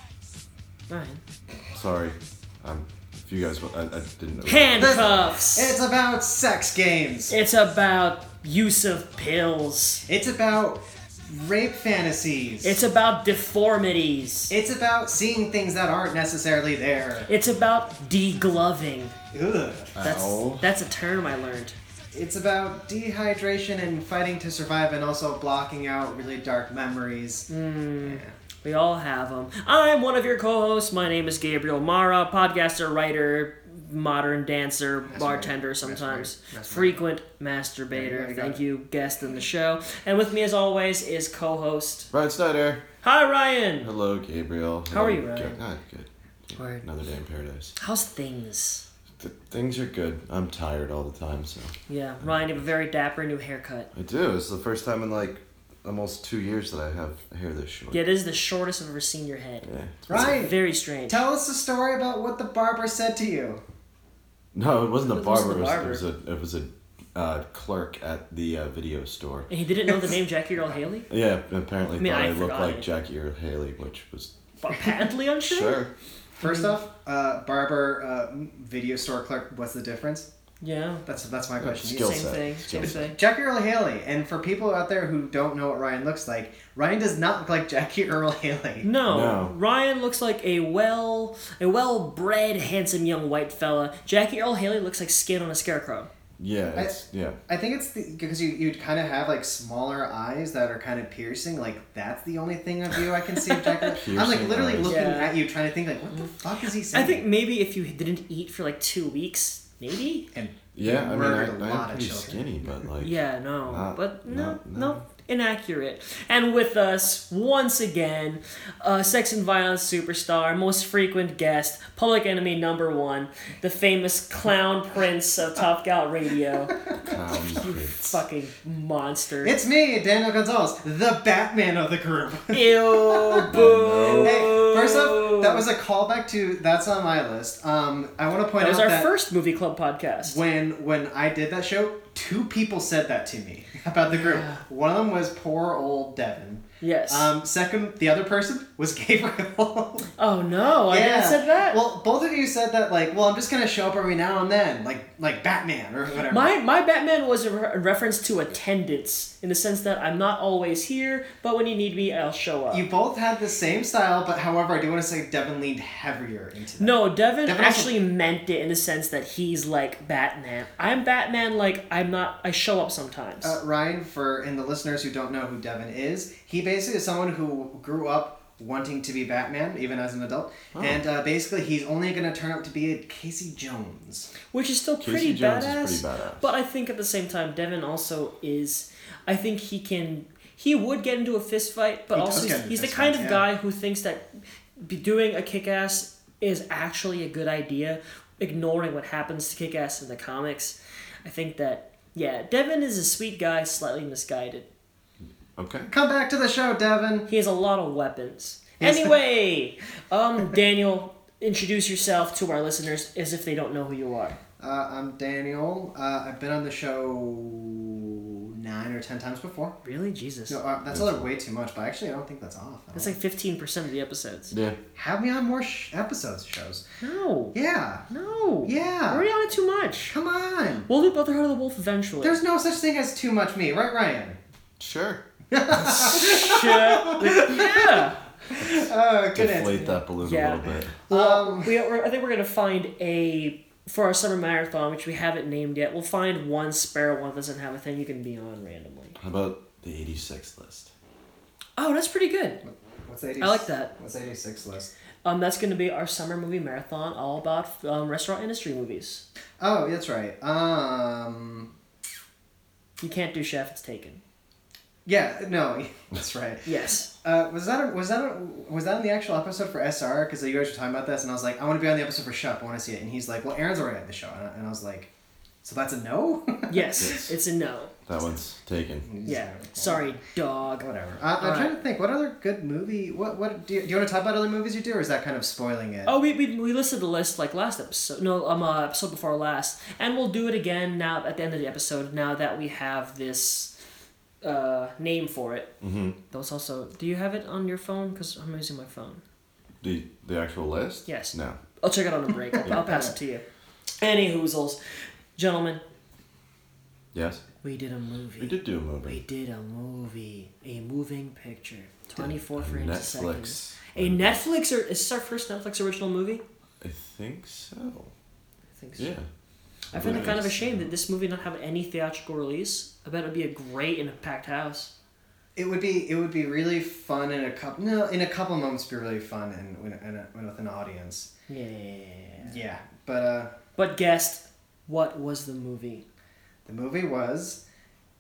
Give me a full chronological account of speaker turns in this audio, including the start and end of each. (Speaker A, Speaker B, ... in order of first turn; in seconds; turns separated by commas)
Speaker A: 0.9-1.2, Speaker B: 1.7-5.3, Speaker A: 4.5-5.8, Speaker C: 4.8-7.4, Speaker A: 7.3-10.1, Speaker C: 10.1-12.8, Speaker A: 12.6-14.6, Speaker C: 14.5-17.3, Speaker A: 17.3-19.1, Speaker C: 19.3-20.0, Speaker B: 19.9-20.7, Speaker A: 20.0-21.8, Speaker C: 22.1-27.5, Speaker A: 27.5-42.1, Speaker C: 28.0-28.4, Speaker C: 35.1-37.0, Speaker C: 37.9-38.6, Speaker B: 42.1-42.8, Speaker A: 43.0-43.9, Speaker B: 43.8-47.8, Speaker A: 44.9-45.6, Speaker A: 46.5-46.9, Speaker A: 47.8-48.9, Speaker B: 49.2-52.3, Speaker A: 51.9-53.9, Speaker B: 53.9-58.0, Speaker A: 57.9-61.2, Speaker B: 59.6-60.4, Speaker C: 60.1-63.6, Speaker B: 64.5-69.5, Speaker A: 65.0-66.1, Speaker A: 69.5-71.1, Speaker B: 71.1-74.3, Speaker A: 72.0-72.9, Speaker A: 74.6-75.9, Speaker B: 75.4-75.9, Speaker C: 76.4-80.3, Speaker A: 76.4-76.7, Speaker A: 80.6-81.0, Speaker C: 81.1-82.2, Speaker B: 81.6-83.0, Speaker A: 82.0-83.2, Speaker C: 82.7-88.9, Speaker A: 88.8-96.1, Speaker B: 89.0-89.5, Speaker B: 96.4-97.4, Speaker C: 96.8-107.2, Speaker A: 103.5-103.9, Speaker B: 103.9-105.1, Speaker A: 104.8-105.4, Speaker A: 106.9-110.3, Speaker C: 110.3-112.5, Speaker B: 110.8-115.0, Speaker A: 113.0-129.6, Speaker B: 127.0-128.2, Speaker C: 129.4-139.1, Speaker A: 132.5-135.7, Speaker B: 133.4-134.6, Speaker A: 138.6-140.4, Speaker C: 140.2-150.1, Speaker A: 144.1-144.6, Speaker A: 146.8-147.3, Speaker A: 150.2-151.8, Speaker C: 150.9-156.5, Speaker A: 156.3-162.9, Speaker C: 162.7-167.9, Speaker A: 166.8-173.5, Speaker C: 173.4-184.3, Speaker B: 180.7-181.0, Speaker A: 184.5-204.7, Speaker B: 185.0-186.5, Speaker C: 192.1-193.5, Speaker B: 205.6-205.9, Speaker C: 205.9-207.3, Speaker A: 207.3-214.4, Speaker C: 208.8-209.2, Speaker C: 214.6-219.8, Speaker A: 219.8-220.6, Speaker C: 220.5-223.2, Speaker B: 220.9-221.3, Speaker A: 222.9-224.6, Speaker B: 224.5-224.8, Speaker C: 224.9-226.8, Speaker A: 227.0-227.6, Speaker C: 227.5-228.1, Speaker A: 228.1-230.2, Speaker C: 228.6-229.3, Speaker C: 230.1-230.9, Speaker A: 230.9-232.4, Speaker C: 232.2-234.4, Speaker B: 234.8-235.2, Speaker C: 235.5-239.9, Speaker A: 236.1-238.2, Speaker B: 239.3-241.0, Speaker A: 239.7-249.2, Speaker C: 241.1-241.8, Speaker B: 249.2-250.9, Speaker A: 251.8-252.6, Speaker C: 252.6-254.9, Speaker A: 253.4-253.9, Speaker A: 255.2-259.2, Speaker C: 259.6-261.7, Speaker A: 263.0-264.2, Speaker C: 265.1-275.1, Speaker A: 266.7-267.1, Speaker C: 275.6-277.1, Speaker A: 276.7-278.0, Speaker B: 277.0-277.4, Speaker B: 278.1-279.1, Speaker C: 279.1-280.2, Speaker A: 279.2-280.9, Speaker C: 280.8-286.1, Speaker A: 281.4-281.7, Speaker A: 286.1-293.7, Speaker A: 294.4-295.7, Speaker B: 295.8-296.2, Speaker A: 296.3-299.2, Speaker B: 299.8-301.6, Speaker A: 301.1-303.4, Speaker C: 302.6-303.1, Speaker A: 304.0-304.8, Speaker A: 305.4-305.8, Speaker B: 307.1-307.4, Speaker A: 307.6-316.4, Speaker B: 308.4-309.2, Speaker B: 312.1-314.5, Speaker B: 316.8-318.1, Speaker A: 318.8-319.2, Speaker B: 319.0-319.3, Speaker B: 319.9-320.6, Speaker A: 319.9-324.9, Speaker C: 320.0-320.7, Speaker C: 325.6-331.3, Speaker A: 331.5-332.6, Speaker C: 332.4-333.6, Speaker A: 333.8-336.1, Speaker C: 336.7-337.6